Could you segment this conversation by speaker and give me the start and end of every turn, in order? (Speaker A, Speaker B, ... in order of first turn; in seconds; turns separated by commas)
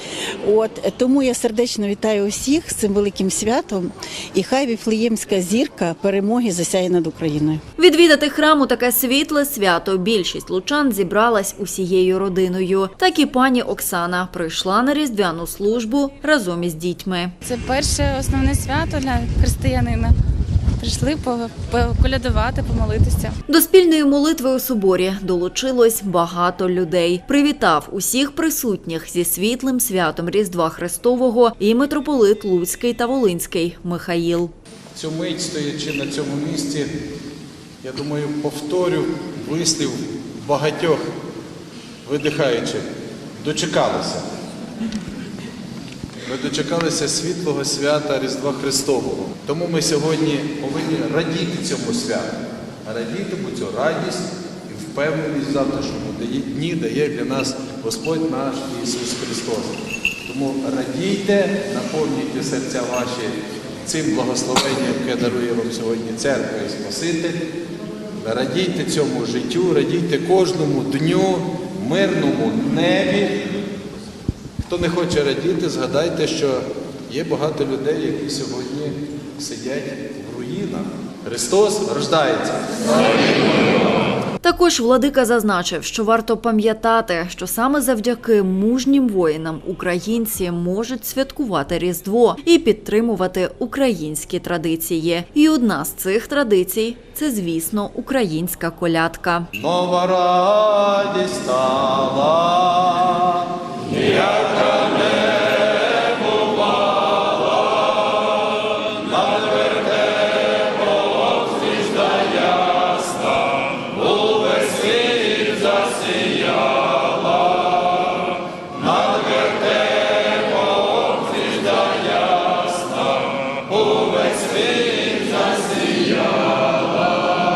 Speaker A: 0.4-7.6, Speaker B: 7.8-17.4, Speaker C: 17.4-20.2, Speaker C: 20.8-23.4, Speaker B: 23.5-34.5, Speaker D: 35.0-36.9, Speaker D: 37.8-41.0, Speaker D: 42.1-42.9, Speaker D: 43.4-44.2, Speaker D: 46.3-52.3, Speaker D: 52.9-67.4, Speaker D: 68.2-73.4, Speaker D: 74.7-82.6, Speaker B: 84.4-99.5, Speaker D: 99.6-103.3, Speaker D: 104.3-104.7, Speaker D: 124.2-124.9